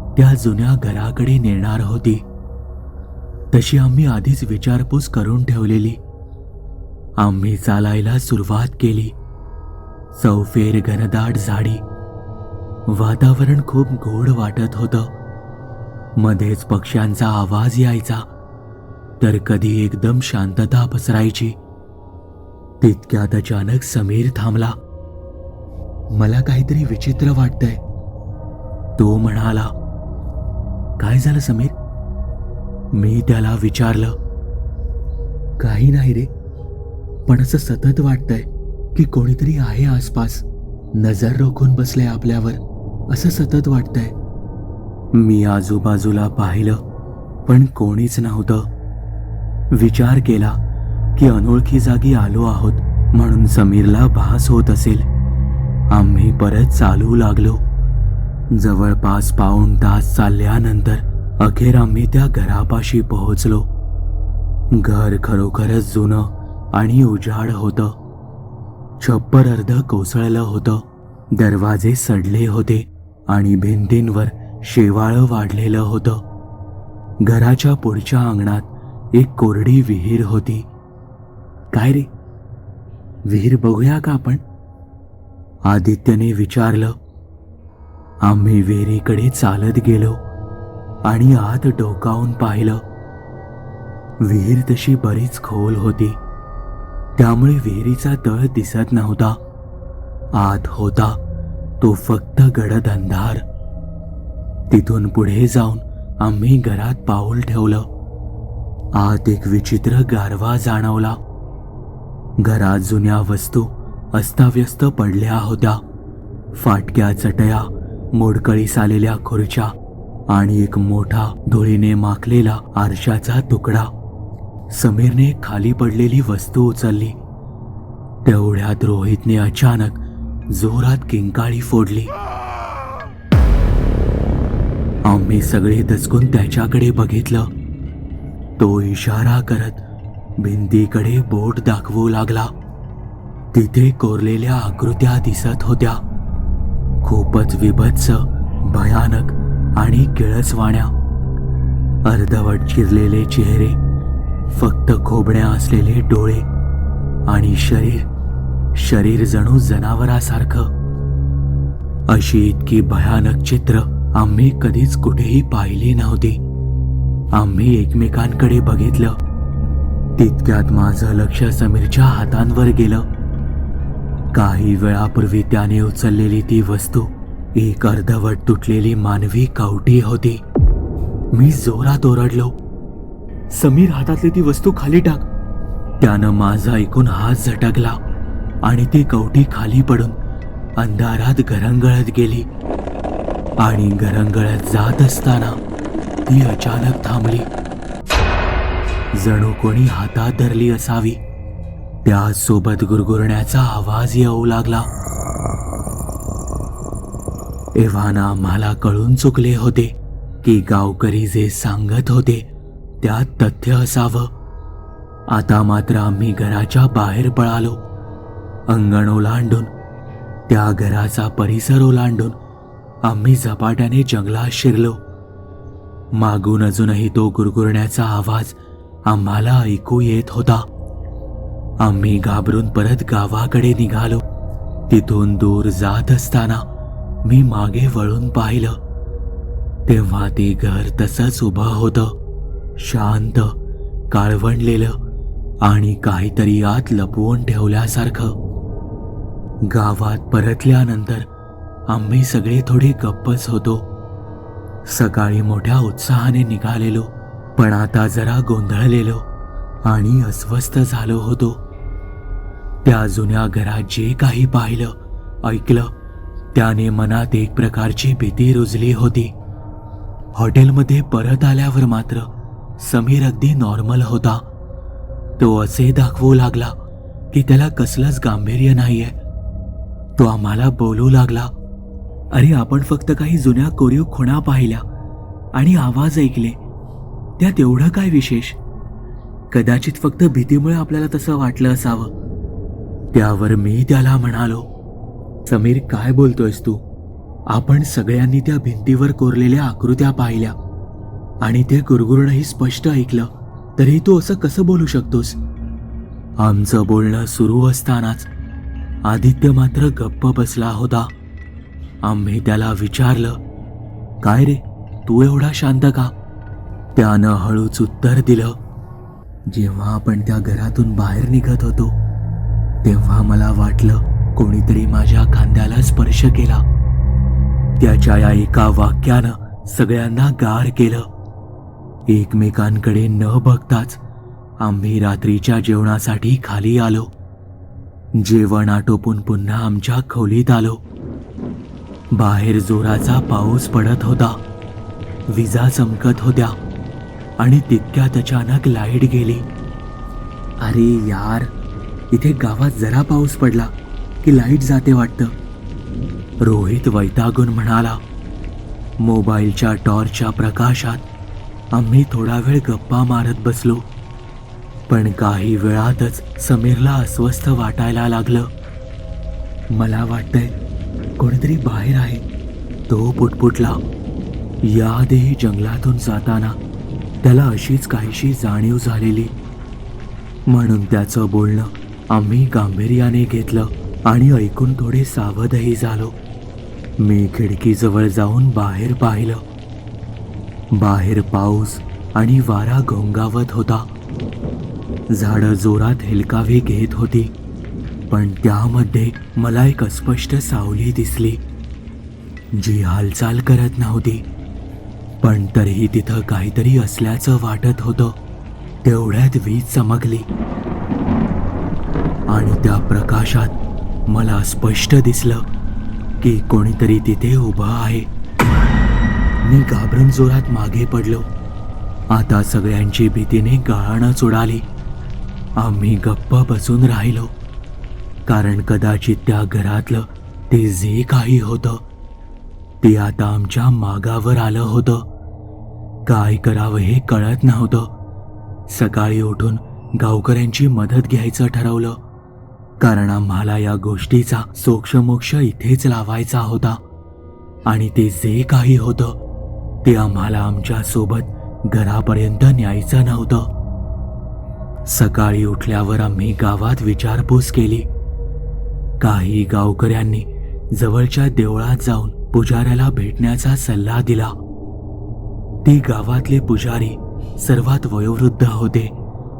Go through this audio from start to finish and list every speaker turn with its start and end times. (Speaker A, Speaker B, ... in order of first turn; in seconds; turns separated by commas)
Speaker A: 0.2-2.2, Speaker A: 3.5-6.0, Speaker A: 7.2-9.2, Speaker A: 10.1-11.8, Speaker A: 12.9-15.1, Speaker A: 16.2-18.2, Speaker A: 19.2-21.6, Speaker A: 22.8-24.8, Speaker A: 26.1-27.8, Speaker A: 29.0-29.7, Speaker A: 31.0-31.8, Speaker A: 32.9-34.1, Speaker A: 35.6-36.3, Speaker A: 37.3-44.1, Speaker A: 45.1-46.8, Speaker A: 47.5-48.7, Speaker A: 49.7-50.6, Speaker A: 51.2-55.0, Speaker A: 55.9-57.6, Speaker A: 58.5-63.7, Speaker A: 64.7-67.9, Speaker A: 69.0-76.2, Speaker A: 77.2-80.7, Speaker A: 81.7-82.1, Speaker A: 83.3-84.4, Speaker A: 85.7-87.0, Speaker A: 88.2-90.2, Speaker A: 91.1-92.8, Speaker A: 94.2-96.2, Speaker A: 97.2-99.4, Speaker A: 100.3-101.2, Speaker A: 101.8-103.4, Speaker A: 104.7-107.9, Speaker A: 109.0-111.2, Speaker A: 112.4-115.8, Speaker A: 116.5-119.7, Speaker A: 120.3-123.9, Speaker A: 124.7-127.2, Speaker A: 128.2-132.1, Speaker A: 135.1-137.5, Speaker A: 138.6-139.8, Speaker A: 140.4-142.5, Speaker A: 143.5-146.0, Speaker A: 147.0-150.9, Speaker A: 152.1-153.8, Speaker A: 154.5-156.5, Speaker A: 157.3-158.1, Speaker A: 158.8-160.7, Speaker A: 162.1-166.4, Speaker A: 167.3-169.2, Speaker A: 170.2-173.1, Speaker A: 174.3-180.4, Speaker A: 181.3-182.6, Speaker A: 183.5-185.2, Speaker A: 186.0-188.0, Speaker A: 188.6-190.2, Speaker A: 190.8-192.5, Speaker A: 193.6-195.6, Speaker A: 196.3-197.5, Speaker A: 199.2-201.2, Speaker A: 202.1-204.9, Speaker A: 207.8-212.5, Speaker A: 213.0-214.3, Speaker A: 215.3-217.8, Speaker A: 218.7-219.7, Speaker A: 220.5-222.4, Speaker A: 223.0-225.0, Speaker A: 226.1-230.7, Speaker A: 231.8-234.2, Speaker A: 234.9-236.6, Speaker A: 237.2-238.8, Speaker A: 239.9-242.1, Speaker A: 242.8-243.6, Speaker A: 244.1-245.0, Speaker A: 245.6-248.3, Speaker A: 249.7-251.3, Speaker A: 251.9-253.9, Speaker A: 254.9-259.3, Speaker A: 259.9-261.6, Speaker A: 262.9-265.9, Speaker A: 266.5-269.3, Speaker A: 270.3-272.3, Speaker A: 272.8-274.4, Speaker A: 275.4-276.7, Speaker A: 277.3-279.2, Speaker A: 280.2-281.5, Speaker A: 282.3-284.8, Speaker A: 285.5-286.6, Speaker A: 287.4-288.6, Speaker A: 289.5-292.1, Speaker A: 293.1-294.7, Speaker A: 295.5-296.8, Speaker A: 297.5-300.6, Speaker A: 301.4-305.4, Speaker A: 306.4-308.3, Speaker A: 309.1-311.1, Speaker A: 312.0-313.4, Speaker A: 314.2-316.1, Speaker A: 316.9-318.6, Speaker A: 319.5-321.9, Speaker A: 322.8-326.6, Speaker A: 327.8-331.1, Speaker A: 332.1-334.0, Speaker A: 334.6-337.1, Speaker A: 338.1-340.8, Speaker A: 342.1-344.4, Speaker A: 345.3-346.6, Speaker A: 347.4-349.4, Speaker A: 350.6-351.5, Speaker A: 352.1-353.7, Speaker A: 354.2-355.3, Speaker A: 356.4-358.0, Speaker A: 359.0-361.0, Speaker A: 361.7-363.9, Speaker A: 364.9-368.5, Speaker A: 369.7-370.5, Speaker A: 371.2-372.2, Speaker A: 372.9-373.8, Speaker A: 374.6-376.6, Speaker A: 377.2-379.3, Speaker A: 380.5-386.2, Speaker A: 387.0-389.4, Speaker A: 390.7-393.9, Speaker A: 395.1-397.3, Speaker A: 398.1-401.4, Speaker A: 402.5-404.2, Speaker A: 405.2-408.1, Speaker A: 408.8-410.3, Speaker A: 412.3-413.6, Speaker A: 414.1-415.4, Speaker A: 416.2-418.1, Speaker A: 419.4-421.3, Speaker A: 422.1-424.6, Speaker A: 425.6-427.3, Speaker A: 428.3-431.8, Speaker A: 432.8-435.1, Speaker A: 436.1-437.9, Speaker A: 438.7-442.0, Speaker A: 442.8-446.8, Speaker A: 447.7-449.2, Speaker A: 449.8-453.5, Speaker A: 454.9-457.9, Speaker A: 459.0-464.3, Speaker A: 465.6-468.9